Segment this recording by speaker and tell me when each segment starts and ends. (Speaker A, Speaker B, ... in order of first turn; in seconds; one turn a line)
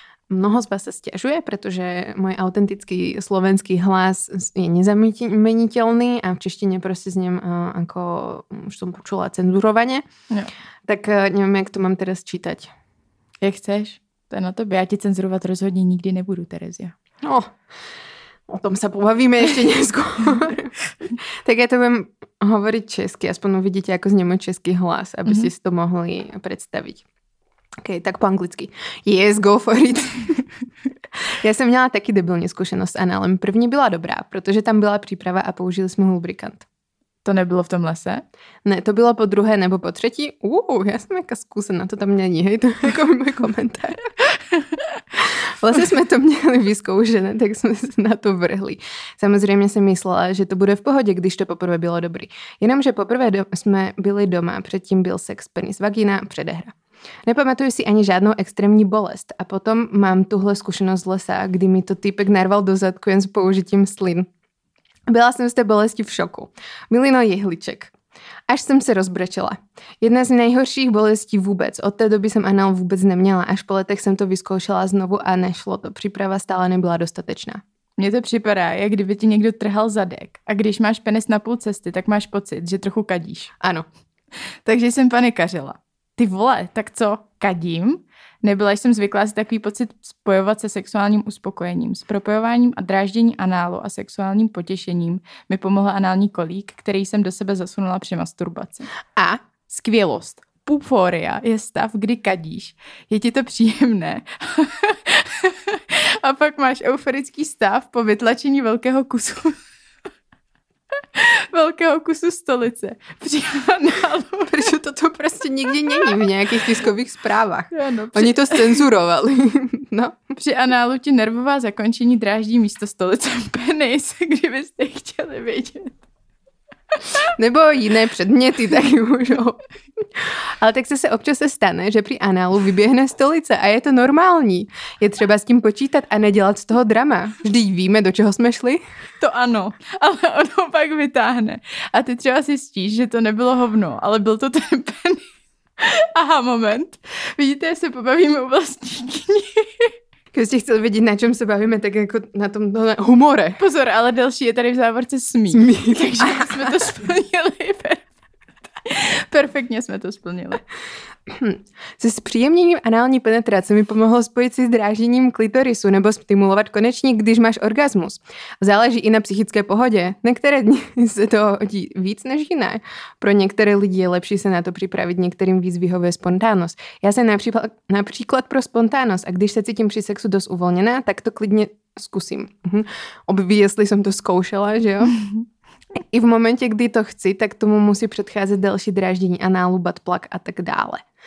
Speaker A: 0.3-10.1
Speaker A: 10.9-12.7
Speaker B: 13.4-16.9
Speaker A: 17.2-17.6
Speaker A: 18.5-20.7
Speaker A: 21.3-27.0
Speaker A: 27.8-30.4
Speaker A: 31.4-36.6
Speaker B: 37.2-38.2
Speaker A: 38.6-44.0
Speaker A: 45.2-56.8
Speaker A: 57.3-64.3
Speaker A: 65.1-67.9
Speaker A: 68.5-77.6
Speaker B: 78.0-83.5
Speaker A: 83.6-83.9
Speaker B: 84.7-98.9
Speaker A: 99.2-99.4
Speaker B: 99.7-109.6
Speaker B: 111.2-114.7
Speaker A: 114.5-120.2
Speaker B: 117.7-118.9
Speaker B: 120.4-126.0
Speaker A: 127.4-138.8
Speaker B: 139.2-145.2
Speaker B: 145.8-149.9
Speaker A: 150.3-153.6
Speaker B: 153.6-158.0
Speaker A: 155.5-156.9
Speaker B: 158.8-160.6
Speaker A: 161.3-185.2
Speaker A: 186.0-191.0